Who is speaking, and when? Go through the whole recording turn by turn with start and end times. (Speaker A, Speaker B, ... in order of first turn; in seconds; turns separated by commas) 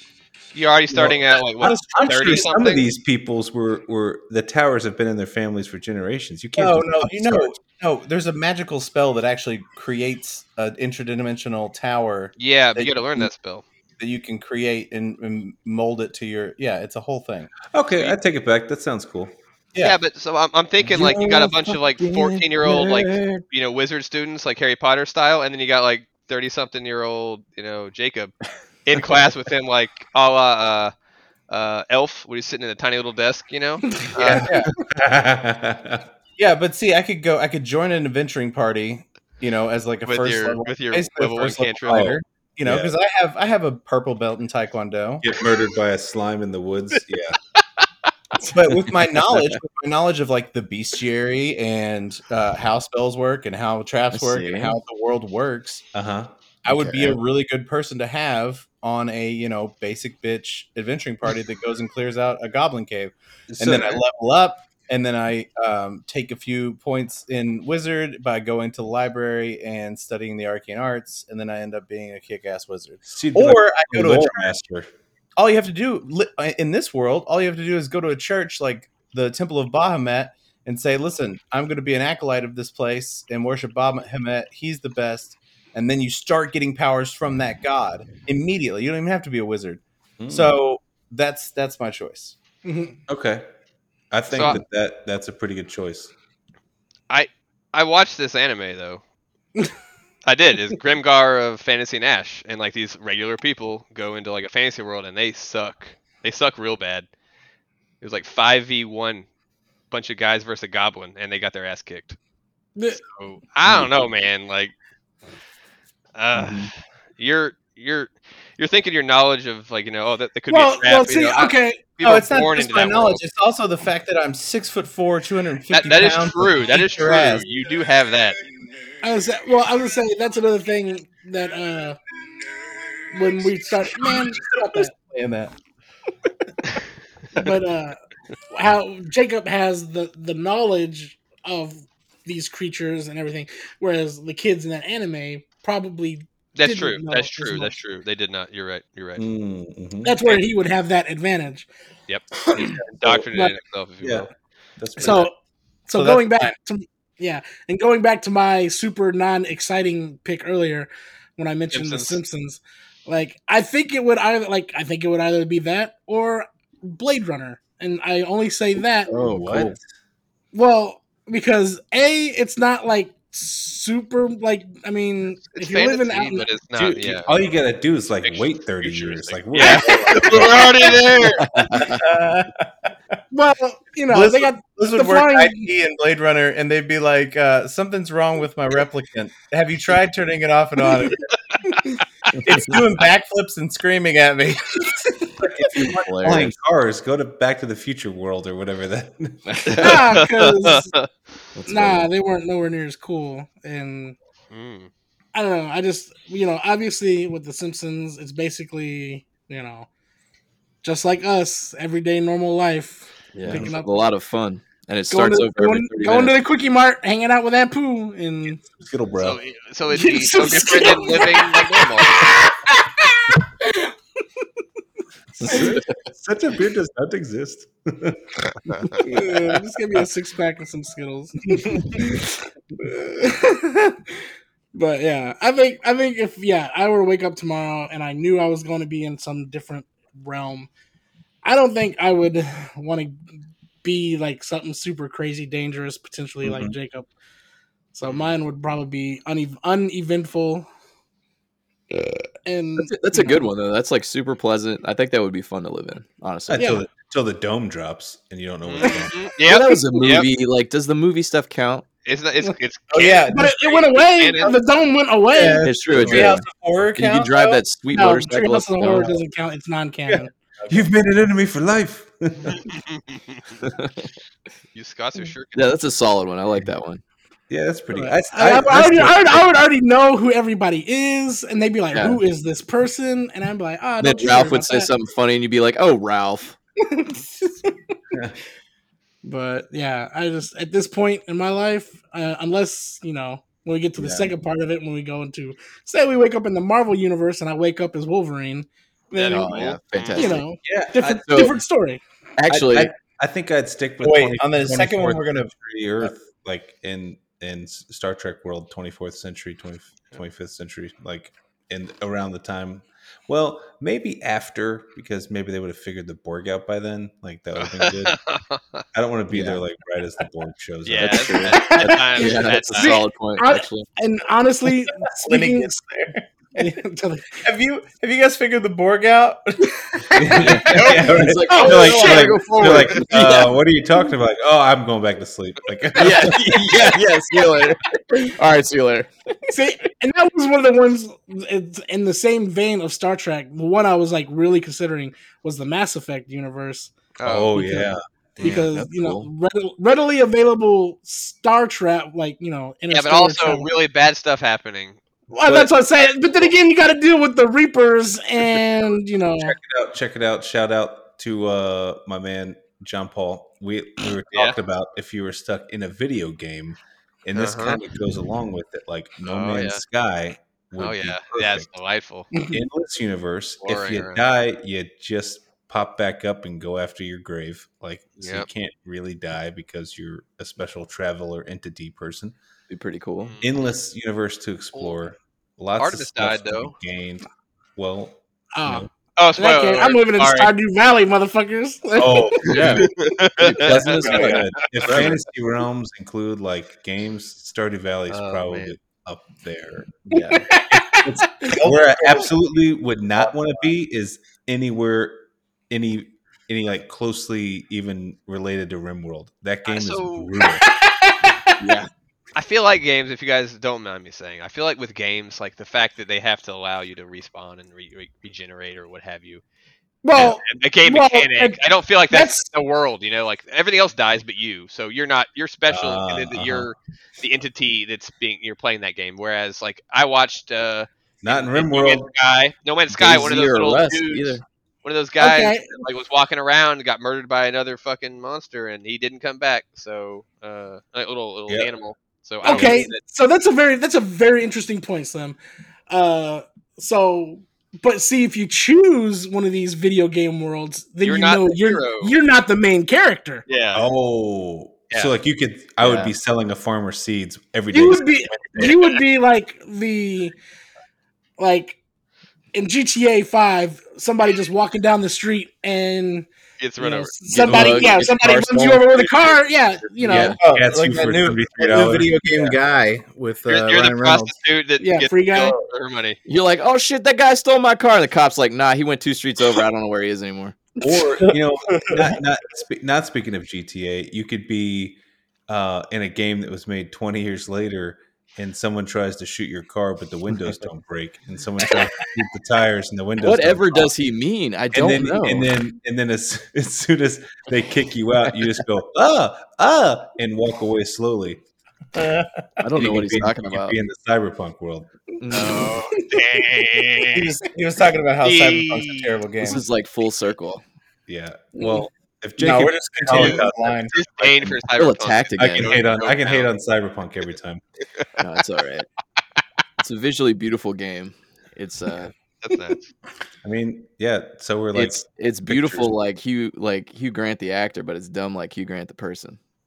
Speaker A: 0.5-2.8, Speaker B: 0.9-7.6, Speaker C: 6.5-13.3, Speaker A: 12.4-13.6, Speaker C: 14.0-17.5, Speaker B: 17.7-19.3, Speaker A: 19.8-30.9, Speaker B: 20.8-21.2, Speaker C: 20.9-22.4, Speaker B: 22.6-23.4, Speaker A: 31.5-34.6, Speaker B: 34.2-36.1, Speaker C: 34.2-34.7, Speaker C: 36.4-45.2, Speaker A: 40.0-42.1, Speaker B: 41.9-42.9, Speaker B: 45.2-47.4, Speaker D: 48.4-49.5, Speaker C: 48.5-55.8, Speaker D: 54.1-54.8, Speaker B: 55.9-56.3, Speaker C: 56.6-74.5, Speaker D: 56.7-57.2, Speaker B: 63.5-64.0, Speaker B: 73.1-74.9, Speaker C: 75.4-92.3, Speaker B: 90.2-90.5, Speaker E: 92.6-93.0, Speaker B: 93.1-93.4, Speaker B: 94.1-96.1, Speaker A: 94.3-94.6, Speaker A: 97.1-99.0, Speaker A: 100.2-107.1, Speaker A: 108.0-109.2, Speaker A: 109.9-112.2, Speaker A: 113.0-114.7, Speaker B: 113.7-113.9, Speaker A: 116.2-123.2, Speaker B: 116.3-116.7, Speaker E: 120.5-121.8, Speaker C: 122.0-127.5, Speaker A: 125.7-128.4, Speaker E: 129.0-132.0, Speaker E: 133.1-134.9, Speaker C: 134.0-135.5, Speaker E: 137.3-138.0, Speaker E: 138.5-147.8, Speaker A: 146.6-149.2, Speaker B: 149.2-150.2, Speaker E: 150.0-151.7, Speaker A: 152.1-154.3, Speaker E: 152.5-152.8, Speaker B: 154.0-154.3, Speaker B: 154.8-155.3, Speaker E: 155.0-155.3, Speaker E: 155.9-169.1, Speaker C: 155.9-156.5, Speaker A: 161.7-162.2, Speaker D: 169.1-169.8, Speaker B: 169.1-169.8, Speaker E: 170.5-176.5, Speaker A: 175.4-177.3, Speaker B: 176.8-180.9, Speaker A: 178.2-181.6, Speaker C: 179.8-180.4, Speaker D: 181.4-182.0, Speaker C: 181.7-182.7, Speaker E: 183.3-185.7, Speaker C: 184.1-191.8, Speaker C: 192.4-195.3, Speaker D: 192.5-192.8, Speaker B: 195.4-200.0, Speaker D: 195.7-196.5, Speaker D: 199.5-200.0, Speaker E: 199.8-200.9, Speaker A: 200.1-201.1, Speaker D: 201.5-202.1, Speaker E: 201.7-204.2, Speaker A: 204.5-204.9, Speaker E: 205.3-209.9, Speaker E: 210.8-214.1, Speaker D: 213.3-216.4, Speaker E: 215.1-218.6, Speaker B: 218.7-219.4, Speaker A: 219.2-222.3, Speaker E: 219.9-223.9, Speaker E: 225.4-225.8, Speaker B: 225.4-228.4, Speaker D: 225.4-225.9, Speaker A: 228.7-229.0, Speaker E: 229.0-234.0, Speaker B: 229.3-229.6, Speaker E: 234.7-240.7, Speaker E: 241.4-243.2, Speaker E: 243.8-247.1, Speaker B: 246.4-246.8, Speaker E: 247.9-250.7, Speaker A: 248.0-248.3, Speaker E: 252.4-253.4, Speaker D: 252.8-256.8, Speaker B: 256.5-259.2, Speaker E: 256.6-256.8, Speaker A: 258.6-260.3, Speaker E: 258.8-260.2, Speaker D: 259.4-261.9, Speaker A: 262.0-264.5, Speaker C: 262.9-263.8, Speaker E: 263.3-265.7, Speaker B: 265.3-266.4, Speaker C: 265.5-267.6, Speaker D: 265.6-269.1, Speaker E: 267.9-270.3, Speaker C: 270.6-270.9, Speaker B: 270.7-272.6, Speaker A: 272.5-273.4, Speaker D: 273.6-274.1, Speaker A: 274.7-275.7, Speaker D: 275.5-277.0, Speaker B: 277.5-279.6, Speaker E: 277.9-284.9, Speaker D: 281.9-282.2, Speaker D: 284.0-286.6, Speaker E: 286.8-287.7, Speaker E: 289.2-302.0, Speaker D: 294.0-294.3, Speaker A: 299.1-300.4, Speaker D: 299.2-300.4, Speaker B: 300.6-301.5, Speaker D: 301.2-301.6, Speaker D: 302.4-302.9, Speaker B: 302.5-318.2, Speaker C: 304.0-306.1, Speaker A: 317.6-318.8, Speaker B: 318.9-321.6, Speaker D: 319.3-319.6, Speaker A: 320.9-323.0, Speaker D: 321.0-323.9, Speaker E: 321.7-325.8, Speaker C: 325.2-326.7, Speaker E: 326.5-327.4, Speaker C: 327.4-330.3, Speaker E: 330.1-330.9, Speaker B: 330.1-336.7, Speaker D: 330.3-333.6, Speaker A: 330.7-331.1, Speaker E: 331.5-332.8, Speaker D: 335.9-339.5, Speaker E: 339.5-346.9, Speaker A: 347.2-347.6, Speaker B: 347.2-348.5, Speaker E: 347.5-353.7, Speaker D: 348.4-349.3, Speaker A: 352.9-355.7, Speaker E: 355.3-359.6, Speaker B: 359.4-371.7, Speaker A: 367.3-367.8, Speaker A: 369.2-369.8, Speaker A: 370.8-372.3, Speaker B: 372.5-382.4, Speaker A: 373.6-374.2, Speaker A: 378.2-378.5, Speaker D: 382.7-383.3, Speaker A: 383.2-383.7, Speaker B: 383.4-388.9, Speaker A: 385.8-386.7, Speaker E: 388.5-392.7, Speaker A: 389.2-390.5, Speaker B: 392.0-392.9, Speaker D: 392.4-395.2, Speaker A: 392.6-395.0, Speaker B: 393.6-410.6, Speaker A: 398.1-398.7, Speaker D: 400.1-400.5, Speaker E: 400.1-401.5, Speaker C: 401.5-402.3, Speaker A: 409.6-410.3, Speaker E: 410.6-411.6, Speaker D: 411.6-411.9, Speaker A: 412.3-419.4, Speaker E: 420.0-422.5, Speaker A: 420.1-443.0, Speaker B: 425.7-426.7, Speaker B: 431.2-432.1, Speaker D: 432.9-434.4, Speaker E: 435.2-435.7, Speaker E: 442.4-445.4, Speaker E: 445.9-453.4, Speaker A: 451.0-452.1, Speaker A: 453.5-453.9, Speaker B: 453.7-458.8, Speaker D: 455.8-456.1, Speaker E: 457.7-460.3, Speaker A: 458.6-459.0, Speaker E: 461.4-461.8, Speaker E: 462.5-466.3, Speaker A: 466.6-467.1, Speaker E: 466.8-470.4, Speaker D: 467.3-469.3, Speaker B: 467.4-467.8, Speaker D: 470.0-470.4, Speaker B: 470.1-472.6, Speaker C: 470.4-474.3, Speaker A: 473.5-476.2, Speaker E: 474.8-475.6, Speaker D: 476.2-480.6, Speaker B: 480.8-493.9, Speaker C: 481.2-482.2, Speaker D: 493.2-495.5, Speaker B: 494.7-501.4, Speaker C: 501.9-502.6, Speaker D: 502.6-503.8, Speaker B: 502.7-504.9, Speaker D: 505.2-505.8, Speaker A: 505.3-507.3, Speaker C: 507.1-509.6, Speaker A: 508.2-509.2, Speaker D: 509.4-510.6, Speaker B: 511.1-514.5, Speaker C: 512.4-513.9, Speaker A: 513.1-516.5, Speaker D: 514.7-515.8, Speaker B: 515.4-517.6, Speaker D: 518.2-518.9, Speaker D: 519.8-522.1, Speaker A: 522.4-522.9, Speaker B: 523.4-525.9, Speaker D: 524.7-529.4